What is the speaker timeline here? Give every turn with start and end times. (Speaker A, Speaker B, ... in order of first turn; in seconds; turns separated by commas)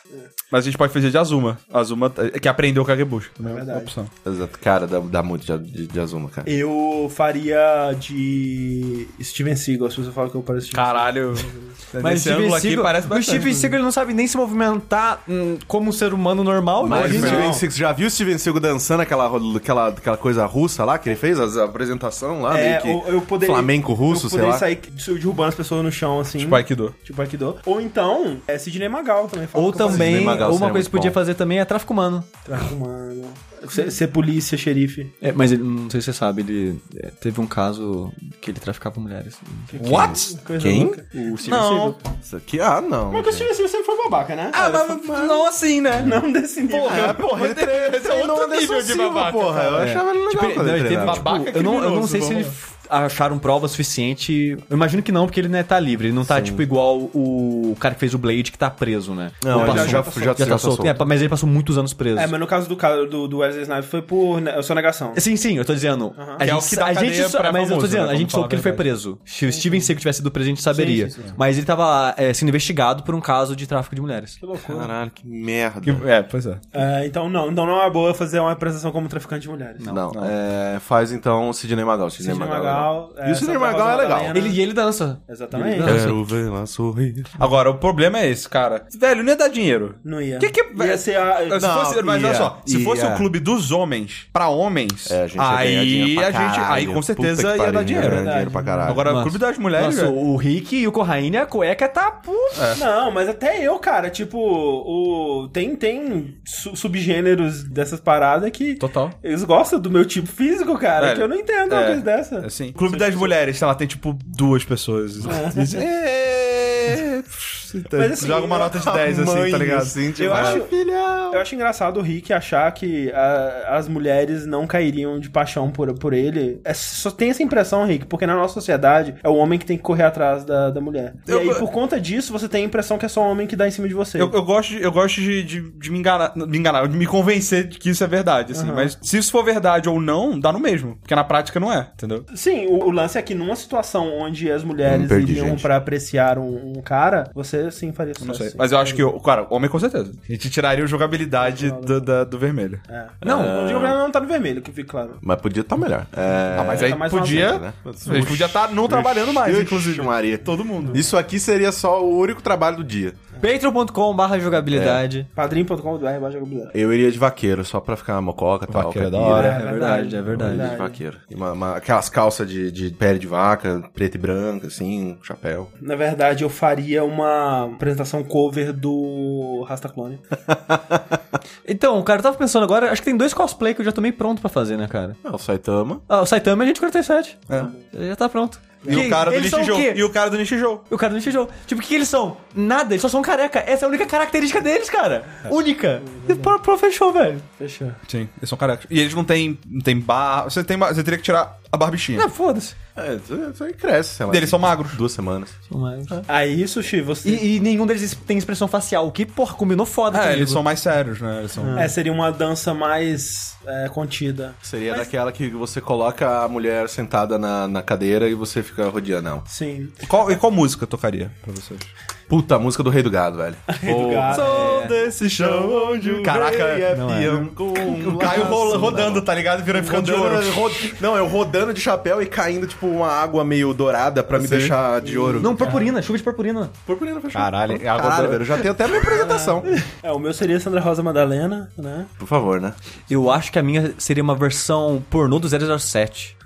Speaker A: 0.5-4.1, Speaker B: 3.4-3.9, Speaker C: 4.2-6.5, Speaker B: 6.5-11.8, Speaker A: 10.7-13.8, Speaker D: 12.0-17.5, Speaker C: 16.8-24.6, Speaker A: 16.9-17.5, Speaker B: 16.9-17.6, Speaker B: 22.5-30.5, Speaker A: 26.4-26.9, Speaker D: 29.6-32.3, Speaker C: 29.9-31.2, Speaker B: 32.5-35.1, Speaker D: 35.2-39.9, Speaker B: 39.7-41.9, Speaker A: 39.8-40.4, Speaker C: 40.6-41.0, Speaker D: 41.4-41.9, Speaker A: 41.4-42.0, Speaker C: 42.2-43.5, Speaker B: 43.1-44.8, Speaker A: 44.5-49.9, Speaker C: 44.6-45.5, Speaker B: 46.0-47.2, Speaker C: 46.9-51.3, Speaker D: 49.8-62.3, Speaker A: 51.0-52.5, Speaker C: 56.3-56.6, Speaker C: 59.4-61.0, Speaker B: 59.5-60.4, Speaker B: 62.2-65.2, Speaker D: 65.1-74.4, Speaker B: 66.2-66.5, Speaker A: 66.4-68.9, Speaker B: 69.5-69.9, Speaker B: 70.7-71.4, Speaker B: 74.4-74.9, Speaker C: 74.6-76.1, Speaker A: 75.8-76.6, Speaker B: 76.7-79.9, Speaker C: 79.9-84.4, Speaker A: 80.1-80.3, Speaker B: 82.2-84.6, Speaker D: 84.3-86.2, Speaker B: 85.3-86.0, Speaker C: 85.8-87.4, Speaker A: 87.4-98.3, Speaker B: 90.0-91.6, Speaker C: 91.6-93.3, Speaker C: 95.1-99.1, Speaker B: 98.0-99.0, Speaker A: 98.8-100.2, Speaker D: 99.0-102.8, Speaker A: 102.5-102.8, Speaker B: 102.8-113.3, Speaker A: 108.8-109.1, Speaker A: 111.0-120.6, Speaker B: 115.3-115.8, Speaker B: 118.0-118.8, Speaker C: 118.6-121.4, Speaker B: 120.2-120.8, Speaker B: 121.3-134.3, Speaker A: 131.3-131.7, Speaker A: 134.2-142.2, Speaker B: 138.5-138.9, Speaker B: 142.3-149.1, Speaker C: 144.8-145.7, Speaker A: 148.2-152.8, Speaker B: 151.4-152.1, Speaker B: 152.9-155.2, Speaker C: 153.2-154.0, Speaker D: 153.2-153.6, Speaker C: 155.2-163.2, Speaker A: 156.5-161.1, Speaker B: 156.6-157.6, Speaker D: 163.4-165.3, Speaker C: 164.7-165.0, Speaker B: 165.3-166.7, Speaker C: 166.7-169.5, Speaker A: 168.7-169.6, Speaker D: 169.3-170.8, Speaker B: 169.3-171.0, Speaker C: 170.3-175.7, Speaker B: 175.8-180.2, Speaker C: 180.5-181.0, Speaker D: 181.7-185.2, Speaker C: 185.2-186.0, Speaker D: 186.1-190.1, Speaker B: 188.8-189.2, Speaker A: 188.9-190.8, Speaker D: 190.9-197.5, Speaker B: 196.1-196.6, Speaker B: 197.6-198.0, Speaker A: 198.1-202.3, Speaker D: 202.2-202.8, Speaker C: 203.0-205.6, Speaker A: 204.3-205.0, Speaker D: 205.7-206.2, Speaker B: 206.3-207.5, Speaker D: 207.2-210.6, Speaker A: 210.1-211.9, Speaker B: 211.7-215.1, Speaker C: 214.6-219.5, Speaker B: 219.5-220.1, Speaker A: 220.0-221.9, Speaker C: 222.3-235.9, Speaker B: 223.7-224.9, Speaker A: 224.3-231.0, Speaker D: 224.4-224.9, Speaker D: 226.9-227.5, Speaker A: 234.3-234.8, Speaker B: 235.0-235.9, Speaker D: 235.4-236.7, Speaker C: 236.9-239.8, Speaker A: 237.3-238.7, Speaker B: 239.0-242.1, Speaker C: 242.2-242.8, Speaker D: 243.1-246.3